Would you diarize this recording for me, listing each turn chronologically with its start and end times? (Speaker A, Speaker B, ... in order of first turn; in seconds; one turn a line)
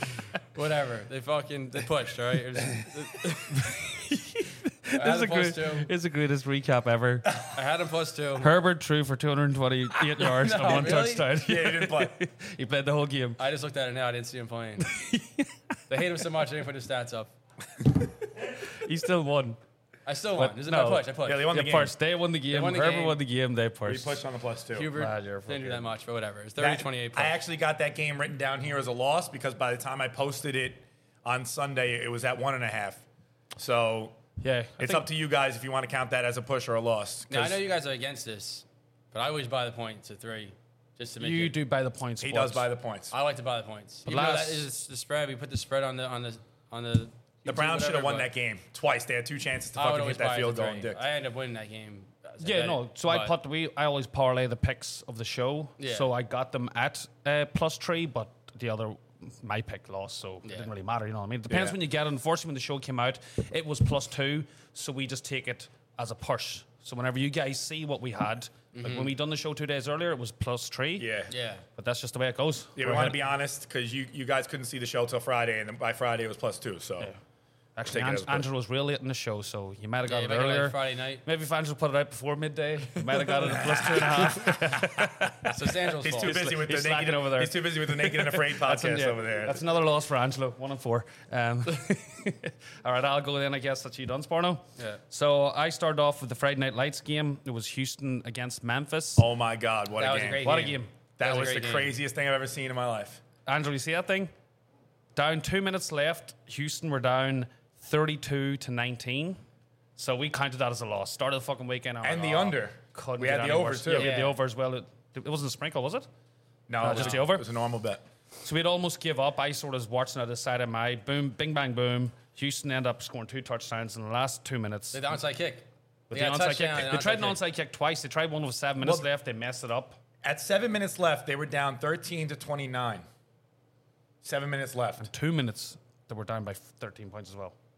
Speaker A: 0.5-3.6
Speaker B: 2.8-7.4
Speaker A: 4.9-5.9
Speaker A: 7.5-8.5
Speaker B: 8.4-13.4
Speaker A: 10.2-11.3
Speaker C: 11.4-12.2
Speaker A: 13.4-14.8
Speaker B: 14.8-15.5
Speaker A: 15.9-17.3
Speaker B: 18.7-19.6
Speaker A: 20.1-21.5
Speaker B: 20.4-24.2
Speaker C: 21.2-21.9
Speaker A: 22.5-23.2
Speaker C: 23.9-24.9
Speaker A: 24.7-27.3
Speaker B: 24.9-25.9
Speaker C: 26.6-33.0
Speaker C: 33.5-34.1
Speaker B: 34.4-35.1
Speaker C: 34.8-37.5
Speaker A: 37.3-41.6
Speaker B: 41.2-42.7
Speaker C: 42.2-43.1
Speaker A: 43.1-48.3
Speaker B: 44.1-44.6
Speaker C: 47.4-51.0
Speaker A: 49.8-53.3
Speaker B: 52.4-71.1
Speaker A: 55.8-56.1
Speaker A: 60.4-60.7
Speaker C: 61.5-61.8
Speaker A: 68.7-69.1
Speaker C: 71.0-71.3
Speaker A: 71.3-71.6
Speaker B: 71.8-73.2
Speaker C: 72.8-77.1
Speaker B: 77.8-85.5
Speaker C: 77.9-78.5
Speaker A: 80.1-81.2
Speaker A: 83.1-83.4
Speaker C: 83.5-89.6
Speaker A: 85.5-86.4
Speaker B: 86.1-99.2
Speaker C: 99.2-100.5
Speaker A: 100.0-102.0
Speaker B: 100.4-100.9
Speaker C: 101.2-103.2
Speaker B: 103.5-104.3
Speaker B: 105.2-109.4
Speaker B: 110.0-116.1
Speaker C: 112.0-114.2
Speaker A: 113.9-114.3
Speaker C: 116.7-118.0
Speaker B: 116.8-117.5
Speaker B: 118.4-125.0
Speaker A: 124.9-127.4
Speaker B: 126.1-130.0
Speaker C: 128.8-129.1
Speaker C: 130.2-133.0
Speaker C: 134.2-135.1
Speaker B: 135.0-137.5